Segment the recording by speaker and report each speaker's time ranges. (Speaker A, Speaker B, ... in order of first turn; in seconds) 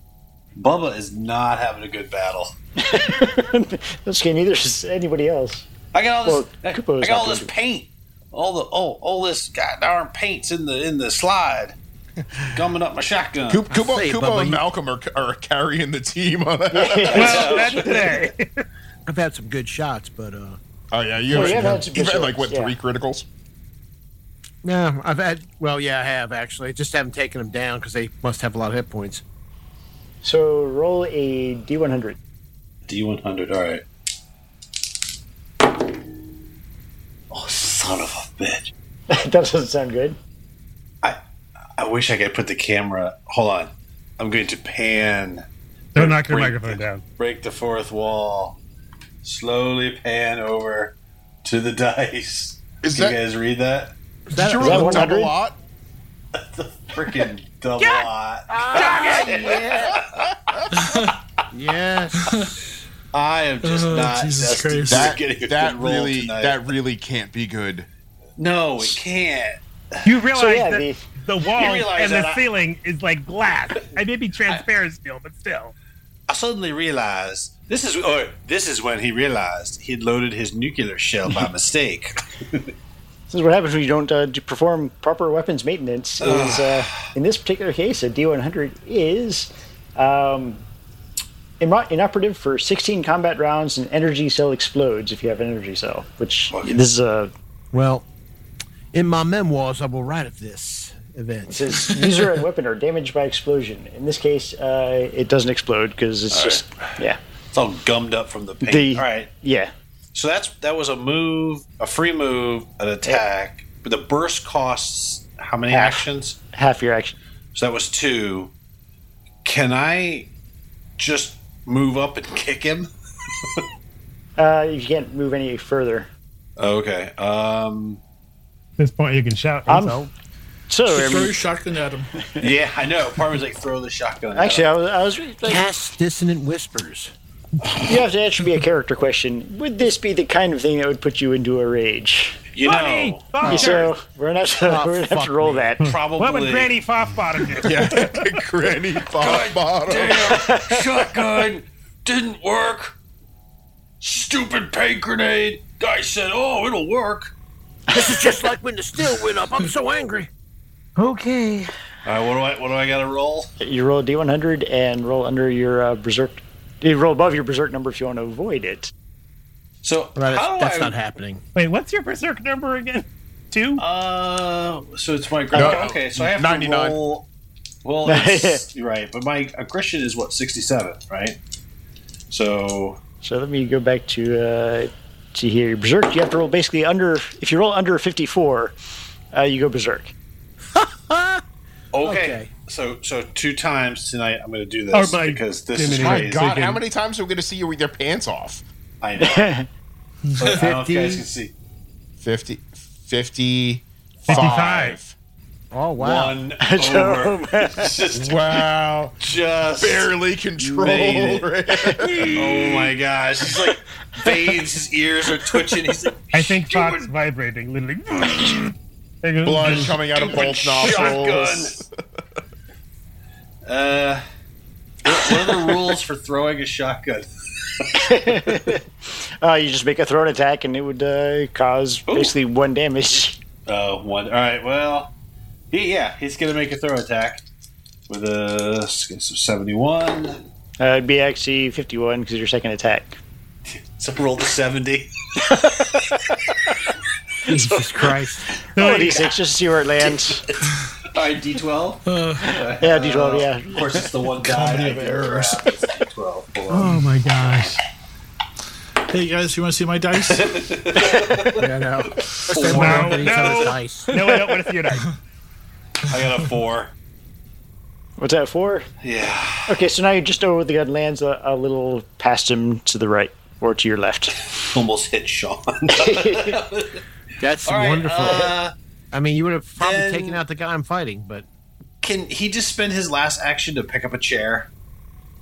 Speaker A: 0.6-2.5, 5.9-11.8, 12.5-13.6, 17.1-18.2, 32.9-33.9, 37.3-38.7, 41.8-48.6, 49.2-54.0, 56.3-60.3, 63.1-66.6, 68.4-70.1, 71.5-72.5, 76.3-82.7, 86.2-87.1, 96.5-96.8, 106.3-106.6, 107.5-109.3, 110.1-116.4, 117.5-118.5, 119.4-120.3, 121.0-122.9, 126.6-128.0, 132.4-134.8, 142.5-143.8, 145.8-146.7, 149.1-152.9, 154.0-157.3, 162.1-163.5, 169.8-171.0, 173.8-177.3, 177.8-181.4, 182.3-183.0, 191.9-196.5, 199.0-199.6, 200.4-201.5, 206.0-211.5, 212.3-217.1, 219.7-221.8, 223.7-224.2, 225.1-228.6, 232.1-232.3, 233.7-235.1, 235.7-237.4, 238.1-240.4, 243.7-246.0, 250.0-257.7, 260.2-263.8, 266.1-266.9, 269.0-269.8, 274.6-277.0, 277.6-278.8, 279.8-280.4, 282.0-284.7
Speaker B: 2.8-5.7, 6.2-7.5, 16.7-18.1, 21.3-22.7, 30.2-32.2, 39.1-40.2, 54.6-55.3, 70.3-71.0, 83.3-90.6, 91.6-97.3, 101.5-107.2, 108.6-109.7, 115.7-117.2, 124.4-126.1, 129.7-130.0, 130.7-131.4, 134.3-135.6, 137.8-142.4, 143.4-145.8, 150.3-150.8, 163.6-168.9, 175.5-175.9, 178.1-178.6, 183.2-188.8, 189.3-190.1, 199.2-199.7, 206.6-208.0, 211.8-212.3, 228.0-228.8, 229.4-233.4, 240.8-243.2, 245.5-245.8, 247.4-250.4, 252.8-254.1, 268.2-268.9, 269.7-274.4, 275.9-276.6, 278.2-278.5
Speaker C: 12.4-12.7, 13.5-17.4, 20.9-23.3, 52.8-53.2, 54.3-55.6, 59.8-60.7, 64.9-67.9, 147.6-150.6, 175.5-177.0, 195.9-198.6, 202.2-205.2, 208.1-209.2, 209.8-212.9, 219.4-221.9
Speaker D: 13.7-14.6, 19.1-20.6, 21.2-21.9, 24.6-29.2, 54.3-55.1, 58.5-60.0, 61.5-62.8, 97.7-98.1, 98.9-102.1, 135.4-137.1, 144.6-145.8, 157.9-160.3, 161.0-161.7, 170.2-171.4, 190.7-191.4, 192.0-192.5, 200.5-201.3, 205.7-206.4, 247.4-248.5, 261.6-264.3, 277.4-278.5, 279.1-281.5
Speaker E: 17.1-18.6, 46.0-47.0, 57.8-58.1, 58.8-59.3, 70.0-75.7, 128.8-130.1, 142.6-143.9, 145.8-148.1, 171.6-173.8, 194.9-196.8, 204.3-205.0, 216.3-220.1, 248.8-249.3, 256.7-257.8, 262.6-265.1
Speaker F: 60.8-61.1, 62.2-62.5, 63.6-65.1, 130.9-132.2, 200.3-200.7, 252.1-252.6, 254.3-255.6, 259.1-260.8, 262.6-263.1